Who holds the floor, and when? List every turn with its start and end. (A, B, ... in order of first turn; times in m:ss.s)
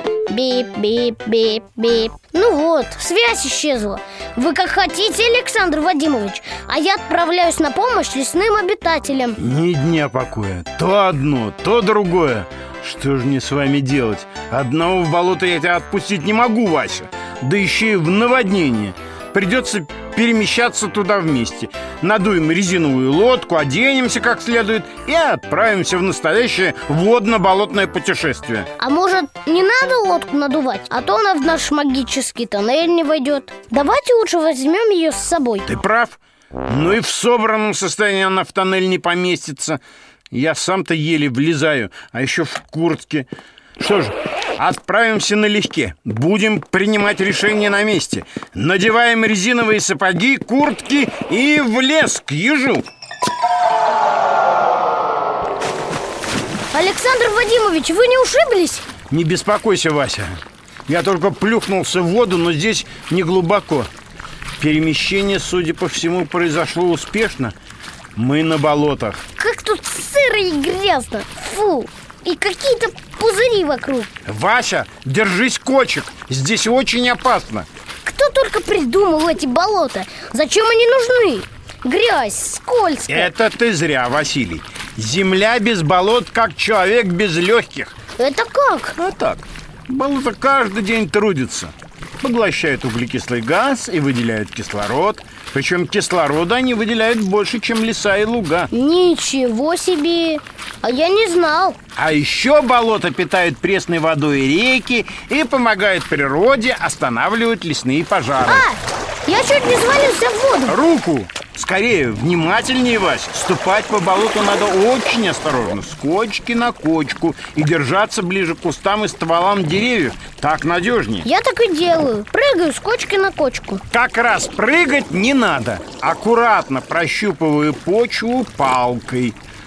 0:00.3-0:09.4 A
0:09.4-0:28.7 B
0:28.8-0:35.7 A
0:35.6-0:39.8 B
0:40.3-0:43.3 B
0:43.8-0:52.8 B
0:56.7-0:58.8 A
0:59.1-1:03.9 B
1:04.6-1:07.6 B
1:08.1-1:09.2 B
1:09.4-1:14.1 A
1:14.2-1:17.7 B
1:18.0-1:23.3 A
1:23.1-1:28.0 B
1:28.2-1:29.0 A
1:29.0-1:38.7 B
1:38.7-1:41.8 A
1:42.0-1:48.6 B
1:48.4-1:50.8 A
1:50.7-2:01.3 B
2:01.2-2:03.8 A
2:03.9-2:09.4 B